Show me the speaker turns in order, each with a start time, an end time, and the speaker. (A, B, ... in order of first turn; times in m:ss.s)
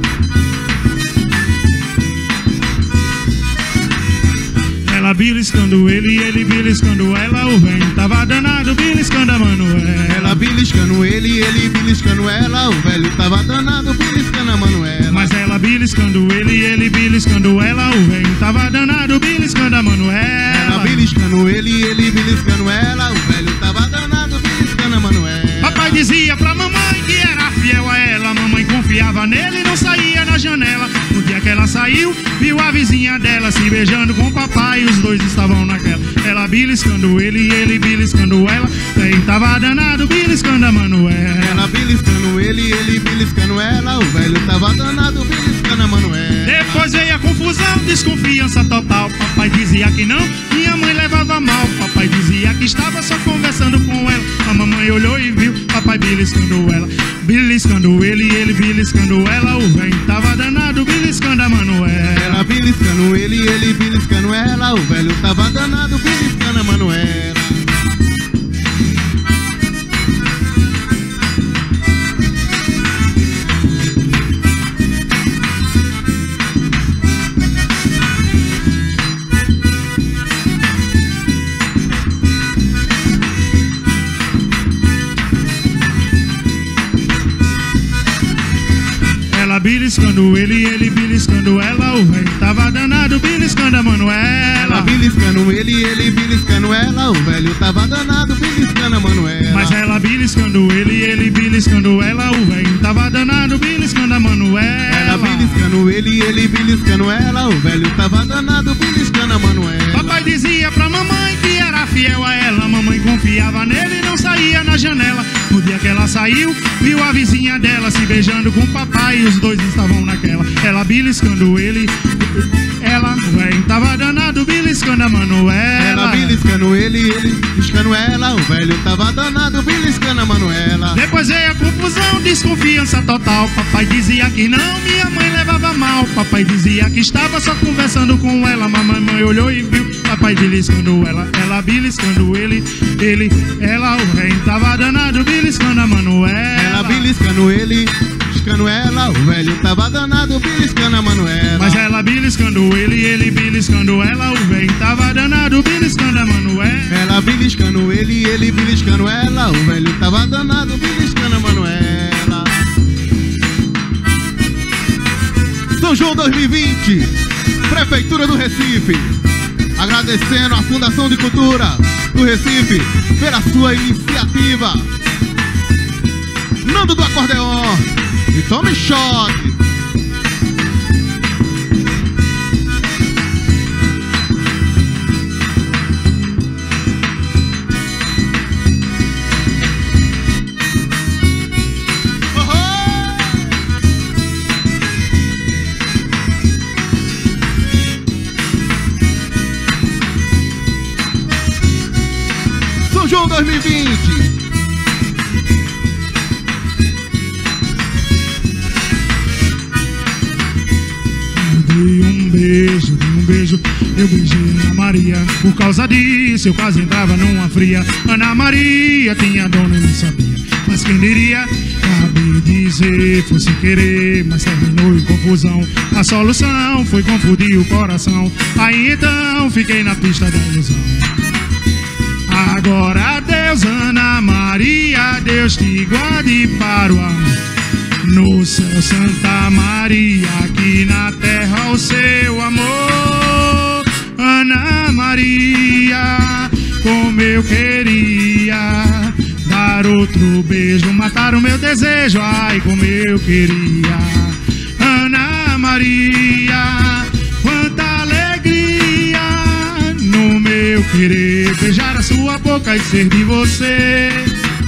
0:04.8-0:10.4 A
0:10.1-0:15.3 B
0:15.1-0:21.1 A
0:20.5-0:26.0 B
0:25.6-0:41.7 A
0:41.4-0:46.8 B
0:46.4-1:02.4 A
1:02.1-1:07.6 B
1:29.3-1:35.0 A
1:34.5-1:39.8 B
1:39.5-1:45.6 A
1:44.9-1:50.2 B
1:49.9-2:06.4 A
2:05.8-2:11.0 B
2:10.9-2:27.1 A
2:26.5-2:31.8 B
2:31.6-2:37.0 A
2:36.9-2:42.5 B
2:45.7-2:47.1 B
2:47.7-2:49.2 B
2:49.8-2:54.9 B
2:56.6-2:59.6 B
3:12.3-3:13.5 B
3:22.8-3:24.3 B
3:31.3-3:51.2 A
3:52.3-3:57.4 A
3:58.0-4:24.4 A